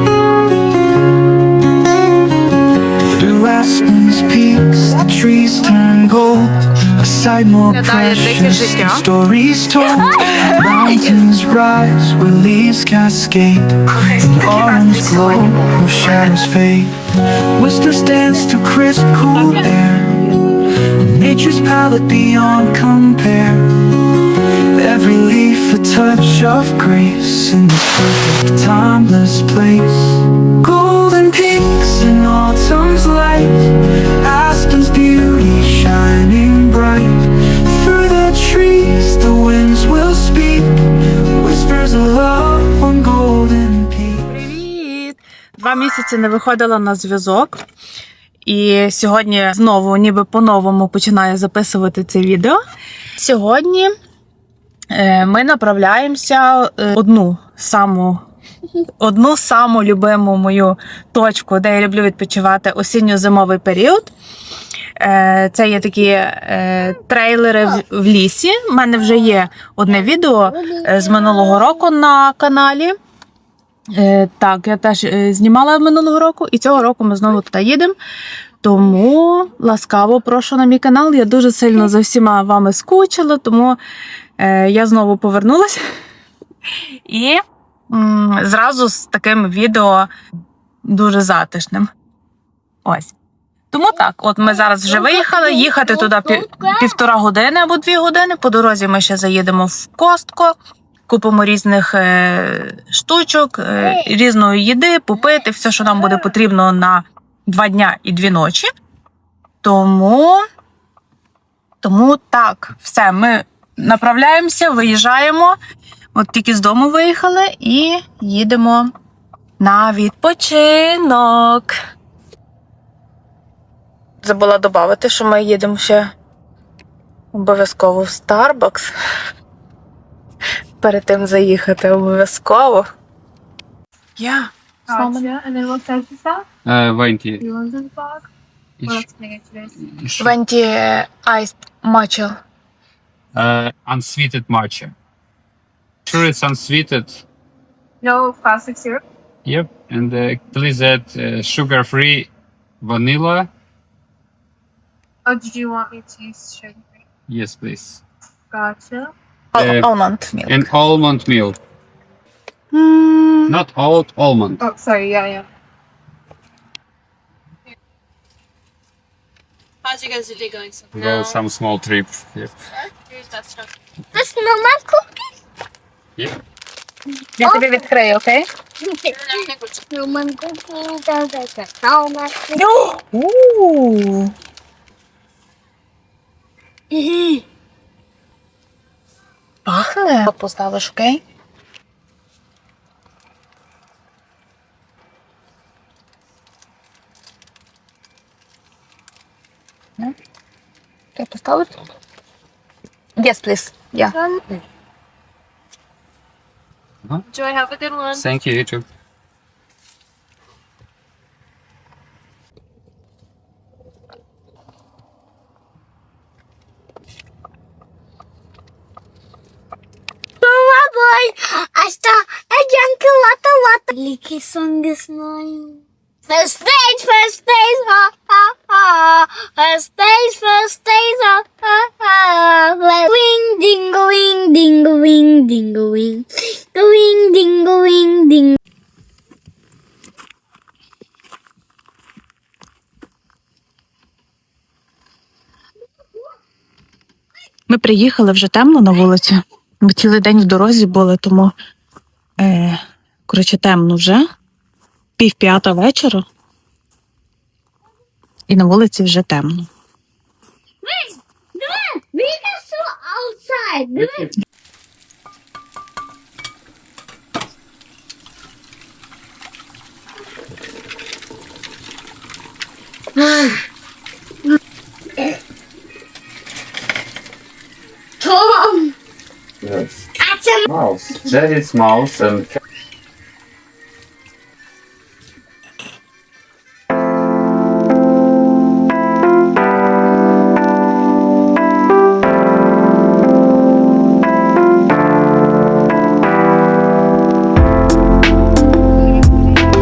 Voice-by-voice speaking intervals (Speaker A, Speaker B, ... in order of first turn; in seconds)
Speaker A: 3.1-16.9, 17.6-44.3
Speaker B: 7.7-9.0, 44.3-47.6, 48.4-52.6, 53.1-53.9, 54.9-58.2, 59.0-64.1, 65.0-72.9, 73.9-78.0, 78.6-83.8, 84.4-85.8, 87.0-90.1, 90.8-91.9, 92.8-93.1, 93.7-100.5, 101.1-108.7, 109.6-110.4, 111.8-115.6, 116.1-118.9, 119.6-121.7, 124.2-126.1, 127.3-128.9, 130.8-132.9, 134.2-136.3, 140.2-142.3, 159.5-160.7, 162.7-163.6, 177.4-178.4, 182.5-184.3, 189.6-191.2, 201.2-201.8, 203.2-204.2, 247.7-251.5, 252.4-254.2, 255.2-256.2, 258.5-259.7
Speaker C: 94.9-96.8, 174.1-175.0, 177.4-177.8, 178.8-182.6, 186.9-187.4, 220.4-238.6, 260.8-264.3, 273.1-273.6, 278.2-278.9, 280.2-280.6
Speaker D: 135.0-135.4, 137.6-138.2, 138.9-139.7, 148.0-149.0, 155.3-156.7, 158.5-159.1, 164.6-165.4
Speaker E: 136.6-137.4, 138.8-139.1, 139.8-140.3, 143.3-144.9, 146.1-147.2, 149.4-152.3, 152.8-153.5, 157.3-158.0, 159.6-159.9, 160.5-161.6, 163.5-164.6, 170.9-172.5, 208.1-208.8, 279.6-280.1, 280.7-282.6
Speaker F: 155.3-156.7, 158.5-158.9, 164.9-165.2, 207.4-208.1